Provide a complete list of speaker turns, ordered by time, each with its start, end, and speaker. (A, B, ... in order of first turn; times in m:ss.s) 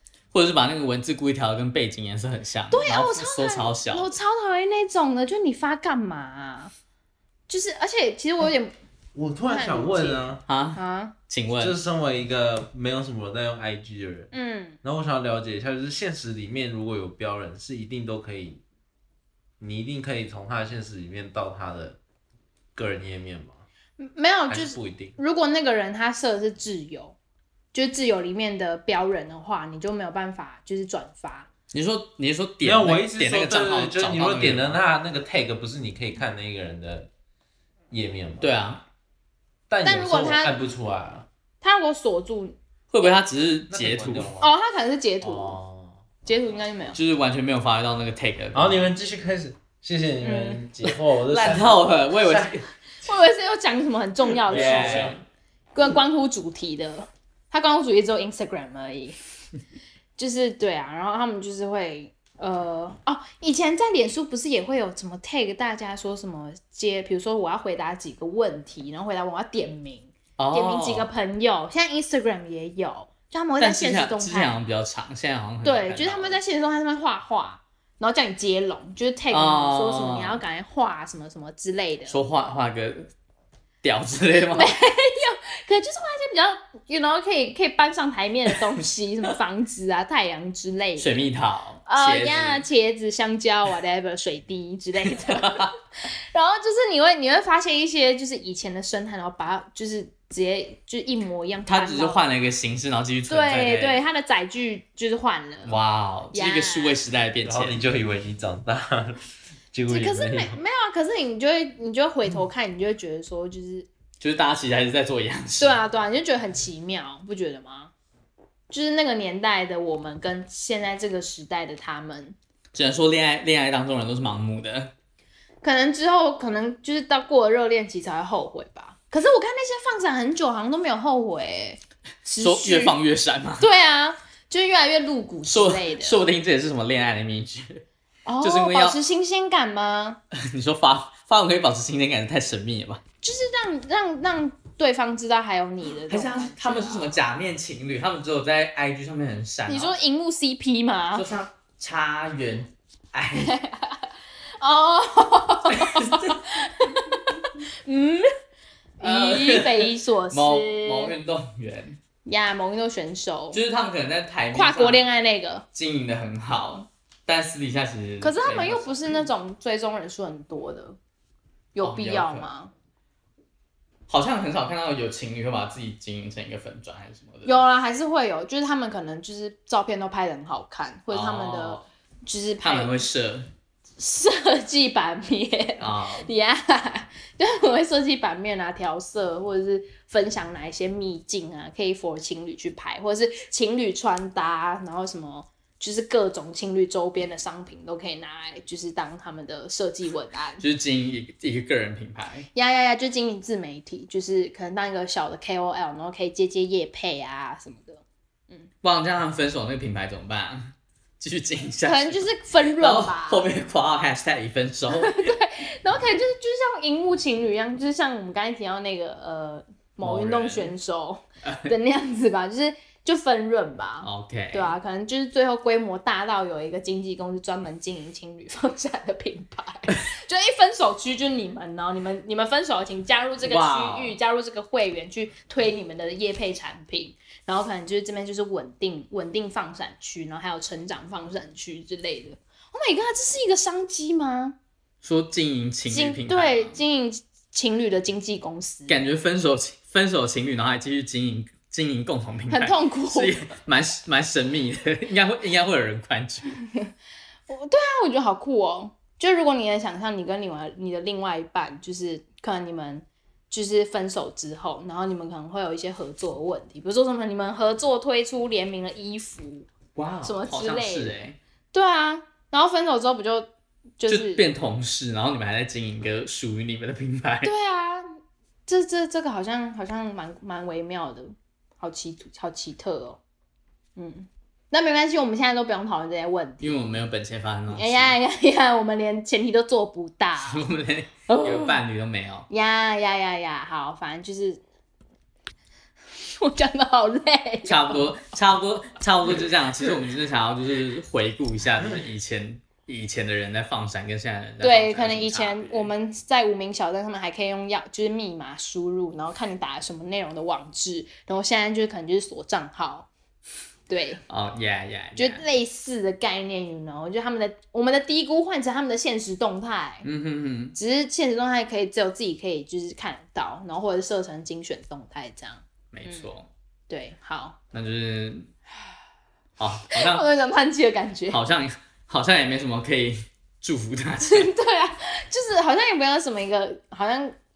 0:00.3-0:04.1 A
0:02.7-0:06.7 B
0:07.5-0:08.7 B
0:09.2-0:10.4 C
0:09.5-0:11.2 B
0:10.5-0:11.8 A
0:11.6-0:14.3 C
0:14.3-0:14.8 B
0:14.8-0:18.6 C
0:19.6-0:22.0 C
0:22.8-0:23.6 C
0:24.0-0:27.2 B
0:24.5-0:25.2 C
0:27.7-0:31.5 B
0:31.7-0:34.8 A
0:32.6-0:37.1 C
0:37.9-0:38.5 C
0:38.4-0:38.8 A
0:39.7-0:41.3 C
0:39.8-0:40.5 B
0:41.6-0:43.1 B
0:42.9-0:44.3 A
0:43.7-0:44.5 C
0:44.4-0:45.6 B
0:45.2-0:46.0 C
0:46.2-0:47.0 B
0:47.0-0:48.9 A
0:48.5-0:52.6 C
0:50.2-0:51.7 B
0:51.3-0:52.7 A
0:53.0-0:55.2 B
0:54.5-0:55.2 C
0:54.5-0:55.2 A
0:55.7-0:59.2 B
1:00.2-1:14.6 B
1:10.4-1:11.1 A
1:13.6-1:16.4 A
1:15.6-1:22.2 B
1:19.3-1:20.4 A
1:22.1-1:23.1 A
1:23.8-1:24.8 A
1:24.5-1:31.2 B
1:31.0-1:32.7 A
1:31.9-1:35.7 B
1:35.0-1:35.7 A
1:36.3-1:42.3 B
1:41.7-1:44.0 A
1:43.3-1:45.8 B
1:45.6-1:47.8 A
1:46.3-1:47.0 B
1:47.4-1:50.6 C
1:49.9-1:53.9 B
1:54.2-1:55.8 A
1:55.6-1:57.9 B
1:58.7-2:02.4 B
2:02.7-2:04.9 A
2:05.6-2:13.0 B
2:12.4-2:13.7 A
2:13.6-2:16.2 B
2:15.5-2:17.8 A
2:18.3-2:20.2 B
2:18.4-2:19.0 A
2:20.3-2:23.0 A
2:23.2-2:27.2 B
2:26.1-2:30.0 A
2:29.7-2:31.3 B
2:31.2-2:33.6 A
2:33.3-2:34.0 B
2:34.6-2:38.3 B
2:35.7-2:37.2 A
2:39.0-2:41.2 B
2:39.0-2:42.0 A
2:42.2-2:43.6 B
2:43.5-2:45.0 A
2:44.5-2:45.7 B
2:45.7-2:49.3 A
2:48.2-2:51.0 B
2:51.8-2:52.7 B
2:51.8-2:52.5 A
2:54.1-2:57.6 A
2:57.4-3:03.0 B
3:01.1-3:01.9 A
3:02.6-3:03.5 A
3:04.0-3:20.6 B
3:05.8-3:06.3 A
3:20.6-3:22.5 A
3:22.6-3:28.7 B
3:28.8-3:35.3 A
3:31.8-3:33.5 B
3:34.9-4:04.6 B
3:40.0-3:40.7 A
3:41.4-3:41.7 A
3:44.0-3:44.8 A
3:53.4-3:54.2 A
4:05.0-4:06.8 A
4:05.9-4:09.0 B
4:08.9-4:16.6 A
4:12.5-4:13.4 B
4:17.5-4:29.7 B
4:30.0-4:31.4 A
4:30.2-4:31.1 B
4:31.7-4:33.5 B
4:34.0-4:34.4 B
4:34.1-4:37.5 A
4:37.4-4:38.1 B
4:38.7-4:43.2 B
4:44.0-4:46.8 B
4:46.6-4:48.1 A
4:47.7-4:50.7 B
4:50.5-4:52.5 A
4:51.3-4:51.8 B
4:52.5-4:54.6 B
4:56.2-4:58.1 B
4:57.7-5:05.9 A
5:04.6-5:13.1 B
5:13.9-5:14.2 B
5:14.3-5:15.4 A
5:15.2-5:20.1 B
5:20.0-5:20.8 A
5:20.8-5:26.3 B
5:25.9-5:26.5 A
5:26.9-5:27.6 B
5:27.7-5:28.5 A
5:29.6-5:30.2 A
5:29.9-5:31.4 B
5:31.3-5:34.5 A
5:34.2-5:37.4 B